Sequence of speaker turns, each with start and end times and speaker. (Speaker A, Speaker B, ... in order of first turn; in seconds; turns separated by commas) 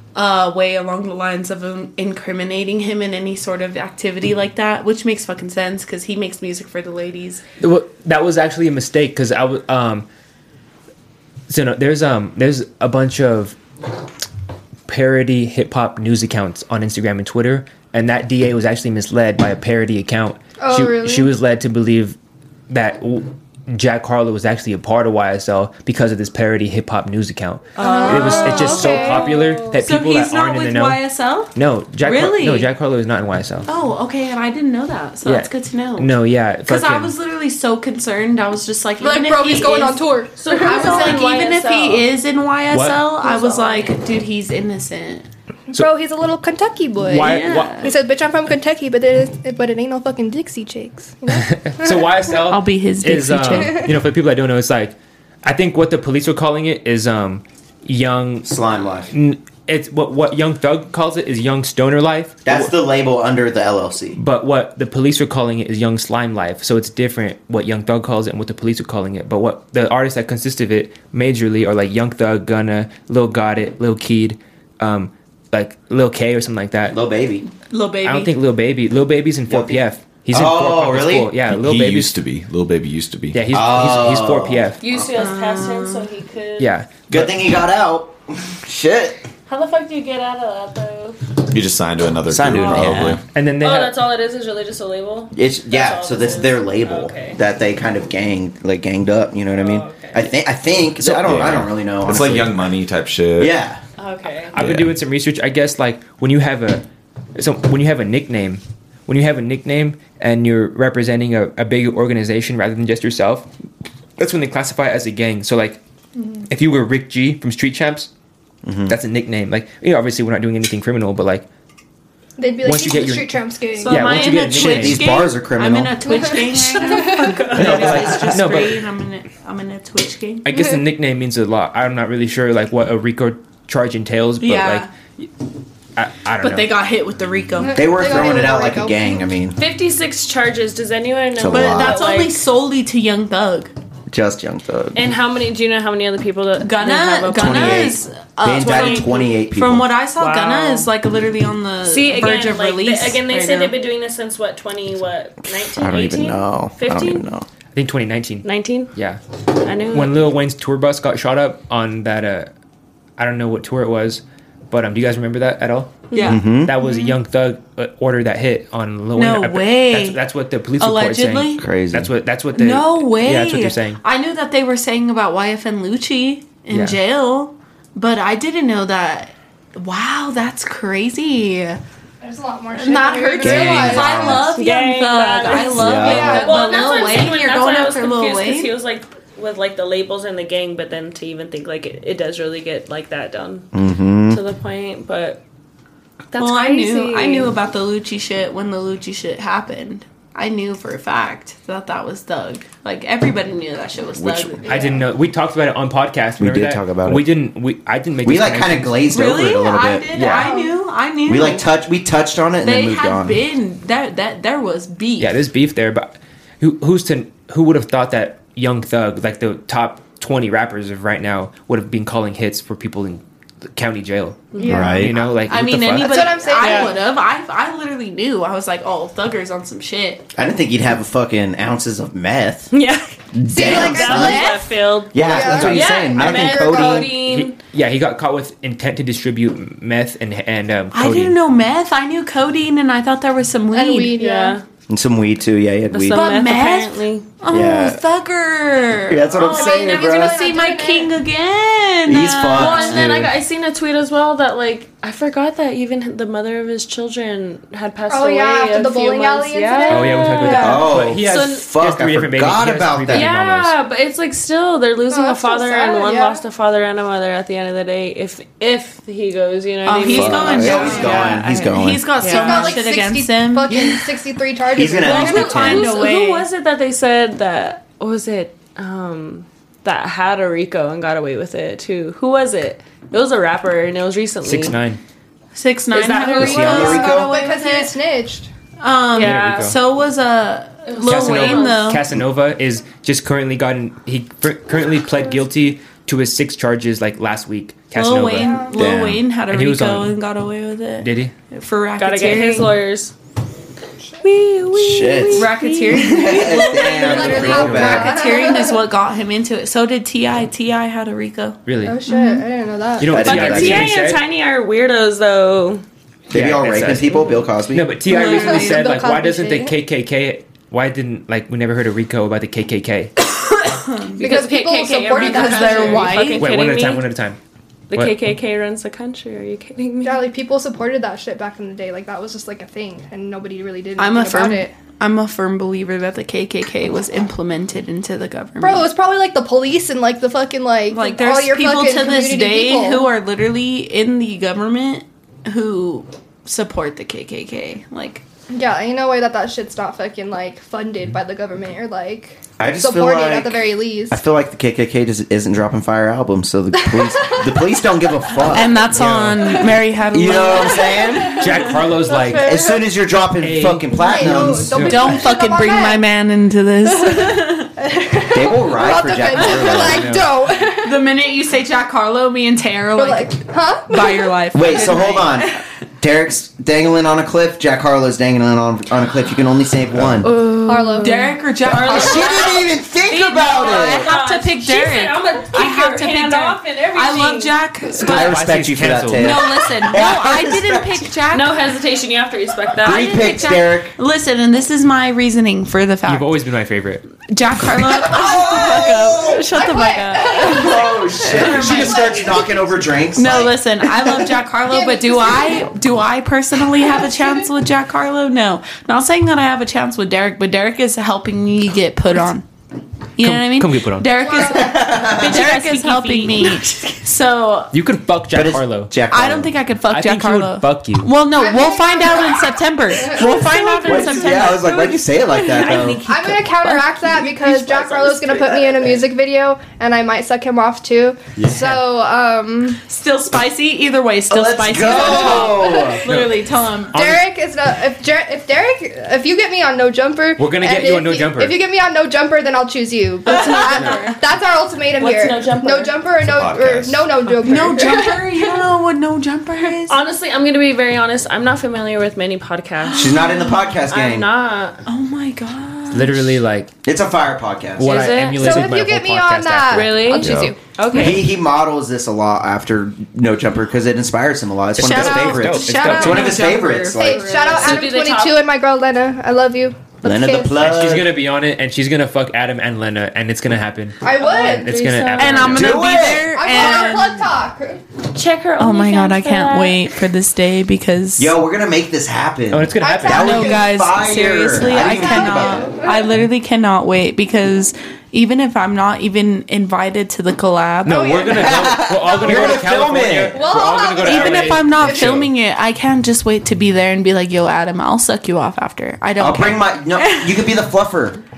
Speaker A: 0.1-7.4, Speaker B: 7.6-10.1, Speaker B: 11.5-13.6, Speaker B: 14.9-22.2, Speaker C: 20.6-21.3, Speaker B: 22.7-33.7, Speaker A: 27.8-29.2, Speaker C: 27.8-29.4, Speaker D: 27.8-29.7, Speaker A: 29.7-32.7, Speaker A: 33.7-45.3, Speaker B: 35.2-37.1, Speaker C: 39.0-41.3, Speaker D: 40.4-42.1, Speaker B: 42.7-43.0, Speaker D: 43.2-43.9, Speaker C: 45.7-52.1, Speaker B: 47.0-47.9, Speaker D: 47.2-47.9, Speaker B: 51.3-58.5, Speaker A: 52.4-53.9, Speaker E: 58.5-59.1, Speaker B: 59.1-62.7, Speaker E: 62.5-64.2, Speaker B: 64.2-77.0, Speaker E: 76.9-77.5, Speaker A: 77.7-78.3, Speaker B: 78.0-82.2, Speaker E: 79.5-79.8, Speaker E: 80.3-81.4, Speaker F: 81.5-83.5, Speaker B: 83.3-84.8, Speaker E: 83.5-84.7, Speaker D: 84.8-86.7, Speaker A: 85.1-86.1, Speaker B: 86.6-87.4, Speaker E: 87.1-89.2, Speaker D: 89.5-91.2, Speaker F: 91.5-93.2, Speaker E: 92.3-93.2, Speaker D: 92.5-97.4, Speaker B: 93.3-94.0, Speaker E: 95.3-102.6, Speaker D: 99.5-100.2, Speaker F: 101.0-103.5, Speaker E: 103.4-103.8, Speaker D: 104.0-104.5, Speaker F: 104.5-104.9, Speaker B: 104.5-113.5, Speaker B: 114.2-115.8, Speaker B: 116.5-118.1, Speaker E: 118.6-119.0, Speaker B: 118.9-121.5, Speaker C: 122.4-124.3, Speaker B: 122.6-123.3, Speaker A: 123.8-130.5, Speaker B: 123.9-125.2, Speaker E: 124.5-126.2, Speaker C: 126.1-127.5, Speaker D: 127.1-127.7, Speaker E: 127.5-128.5, Speaker B: 127.5-128.8, Speaker B: 130.4-135.3, Speaker A: 134.4-134.9, Speaker B: 136.0-136.7, Speaker A: 136.4-138.1, Speaker C: 137.6-139.2, Speaker E: 137.8-139.6, Speaker D: 139.6-142.4, Speaker E: 141.4-142.0, Speaker A: 141.5-143.7, Speaker E: 144.1-145.0, Speaker D: 144.9-149.3, Speaker A: 146.6-153.8, Speaker E: 147.3-149.9, Speaker D: 150.2-150.9, Speaker D: 151.8-157.3, Speaker E: 155.8-157.5, Speaker B: 157.7-159.2, Speaker D: 158.4-158.9, Speaker D: 159.6-160.3, Speaker B: 159.9-162.5, Speaker B: 163.2-174.0, Speaker D: 166.1-166.4, Speaker A: 166.1-167.1, Speaker E: 166.2-166.7, Speaker A: 169.2-170.2, Speaker A: 170.8-171.7, Speaker E: 171.6-172.1, Speaker A: 172.5-181.8, Speaker B: 176.7-177.0, Speaker C: 182.2-184.5, Speaker A: 182.7-188.7, Speaker E: 183.4-184.5, Speaker D: 184.3-193.7, Speaker C: 185.5-187.3, Speaker E: 185.8-186.5, Speaker E: 193.7-194.4, Speaker D: 194.3-195.4, Speaker D: 196.3-197.5, Speaker A: 196.4-205.0, Speaker F: 204.2-204.7, Speaker B: 204.7-209.1, Speaker E: 206.4-207.3, Speaker E: 208.2-210.1, Speaker A: 209.1-211.7, Speaker B: 210.1-210.5, Speaker C: 210.3-210.7, Speaker E: 211.3-213.4, Speaker A: 212.6-215.4, Speaker B: 215.2-223.2, Speaker B: 223.7-226.3, Speaker D: 224.5-224.9, Speaker C: 224.6-225.1, Speaker E: 224.6-225.2, Speaker A: 225.4-230.3, Speaker C: 225.9-227.0, Speaker D: 226.6-226.9, Speaker E: 230.4-232.7, Speaker D: 232.7-237.6, Speaker E: 233.3-234.5, Speaker C: 233.5-234.6, Speaker A: 233.7-234.7, Speaker E: 235.1-237.1, Speaker C: 235.2-237.1, Speaker B: 237.2-241.4, Speaker A: 240.9-244.2, Speaker C: 243.7-244.6, Speaker D: 244.2-244.7, Speaker E: 244.9-246.3, Speaker D: 245.9-247.3, Speaker A: 246.1-253.1, Speaker E: 247.5-248.0, Speaker E: 249.1-250.4, Speaker C: 249.4-251.2, Speaker D: 249.4-249.9, Speaker E: 252.1-253.3, Speaker D: 252.5-261.7, Speaker C: 258.1-260.8, Speaker B: 259.9-263.8, Speaker E: 260.5-263.3, Speaker D: 263.1-271.6, Speaker C: 265.1-266.4, Speaker A: 269.9-274.0, Speaker E: 270.1-272.1, Speaker C: 270.7-271.3, Speaker D: 272.2-272.8, Speaker C: 272.2-276.0, Speaker E: 274.8-275.9, Speaker A: 274.8-276.5, Speaker D: 275.2-284.8, Speaker B: 284.4-285.0, Speaker A: 285.5-287.9, Speaker D: 285.9-287.0, Speaker E: 286.4-287.3, Speaker C: 286.5-288.5, Speaker A: 288.8-292.1, Speaker D: 289.1-289.7, Speaker B: 289.2-289.8, Speaker D: 290.9-291.9, Speaker B: 291.0-298.6, Speaker A: 297.9-302.7, Speaker C: 298.4-298.9, Speaker E: 298.7-299.2, Speaker B: 299.5-300.2, Speaker B: 301.0-301.3, Speaker D: 302.0-303.1, Speaker D: 304.2-306.6, Speaker E: 304.7-308.2, Speaker A: 305.3-312.4, Speaker C: 306.7-308.8, Speaker B: 307.3-308.1, Speaker B: 311.7-312.0, Speaker C: 311.9-313.3, Speaker B: 313.0-314.2, Speaker E: 313.0-313.9, Speaker D: 313.2-315.8, Speaker E: 316.3-318.0, Speaker B: 316.3-323.1, Speaker C: 318.1-319.8, Speaker A: 318.1-318.9, Speaker A: 323.5-324.2, Speaker C: 324.2-326.3, Speaker D: 324.2-327.1, Speaker A: 325.1-326.5, Speaker B: 326.4-327.4, Speaker D: 327.9-330.2, Speaker C: 330.0-334.7, Speaker A: 334.0-338.9, Speaker C: 338.6-343.1, Speaker A: 340.9-348.2, Speaker C: 348.5-354.2, Speaker E: 352.6-358.9, Speaker C: 356.9-357.6, Speaker A: 358.5-361.1, Speaker B: 358.9-359.6, Speaker C: 359.7-362.8, Speaker E: 360.1-361.7, Speaker B: 361.4-362.6, Speaker E: 362.3-365.1, Speaker B: 363.4-365.2, Speaker C: 363.9-366.1, Speaker A: 364.8-367.7, Speaker C: 366.9-371.1, Speaker E: 368.3-370.1, Speaker B: 369.6-370.3, Speaker A: 370.8-375.6, Speaker C: 372.9-374.3, Speaker E: 374.5-380.3, Speaker A: 380.2-382.6, Speaker D: 380.2-387.6, Speaker C: 380.7-382.1, Speaker E: 381.8-384.1, Speaker A: 383.4-388.4, Speaker B: 388.0-389.4, Speaker E: 388.0-391.1, Speaker A: 389.1-391.6, Speaker D: 391.3-393.3, Speaker E: 392.8-393.9, Speaker A: 392.8-396.3, Speaker B: 396.1-397.1, Speaker A: 397.3-402.3, Speaker E: 398.0-399.4, Speaker C: 399.5-402.6, Speaker E: 400.4-403.6, Speaker A: 403.1-412.4, Speaker C: 404.7-405.7, Speaker A: 413.2-417.7, Speaker B: 413.2-414.2, Speaker C: 414.1-415.0, Speaker E: 414.4-415.5, Speaker D: 415.2-416.8, Speaker B: 417.7-418.9, Speaker E: 418.3-419.6, Speaker A: 419.1-427.6, Speaker B: 419.9-421.1, Speaker C: 421.3-423.3, Speaker D: 423.1-424.9, Speaker E: 423.9-426.1, Speaker C: 426.0-432.8, Speaker D: 427.4-428.8, Speaker B: 431.4-431.8, Speaker A: 432.9-437.0, Speaker E: 434.3-436.0, Speaker C: 434.9-435.5, Speaker D: 435.0-435.4, Speaker B: 436.1-437.2, Speaker C: 436.9-448.5, Speaker B: 440.4-441.6, Speaker D: 443.3-444.2, Speaker A: 443.3-444.1, Speaker D: 445.0-445.9, Speaker F: 446.2-447.1, Speaker A: 447.3-450.0, Speaker D: 449.9-453.3, Speaker A: 452.8-453.6, Speaker E: 453.0-454.3, Speaker D: 453.9-454.8, Speaker A: 454.9-456.4, Speaker B: 455.9-456.7, Speaker E: 456.9-458.1, Speaker B: 457.8-460.2, Speaker D: 457.8-458.7, Speaker C: 458.3-460.6, Speaker D: 459.7-461.3, Speaker F: 460.2-460.5, Speaker E: 460.9-467.3, Speaker B: 464.8-466.4, Speaker A: 464.8-467.8, Speaker C: 466.9-470.6, Speaker D: 467.3-468.5, Speaker E: 470.0-471.1, Speaker B: 470.6-475.9, Speaker C: 474.0-474.8, Speaker D: 474.2-475.7, Speaker A: 475.1-477.3, Speaker E: 475.5-476.5, Speaker C: 476.3-477.8, Speaker D: 478.1-479.9, Speaker A: 478.6-481.4, Speaker E: 481.2-485.7, Speaker B: 482.5-483.4, Speaker C: 482.8-483.7, Speaker A: 483.1-491.4, Speaker C: 484.6-486.1, Speaker B: 490.9-495.3, Speaker E: 491.3-493.5, Speaker C: 492.1-492.7, Speaker C: 493.3-495.2, Speaker A: 494.0-500.3, Speaker E: 499.2-501.2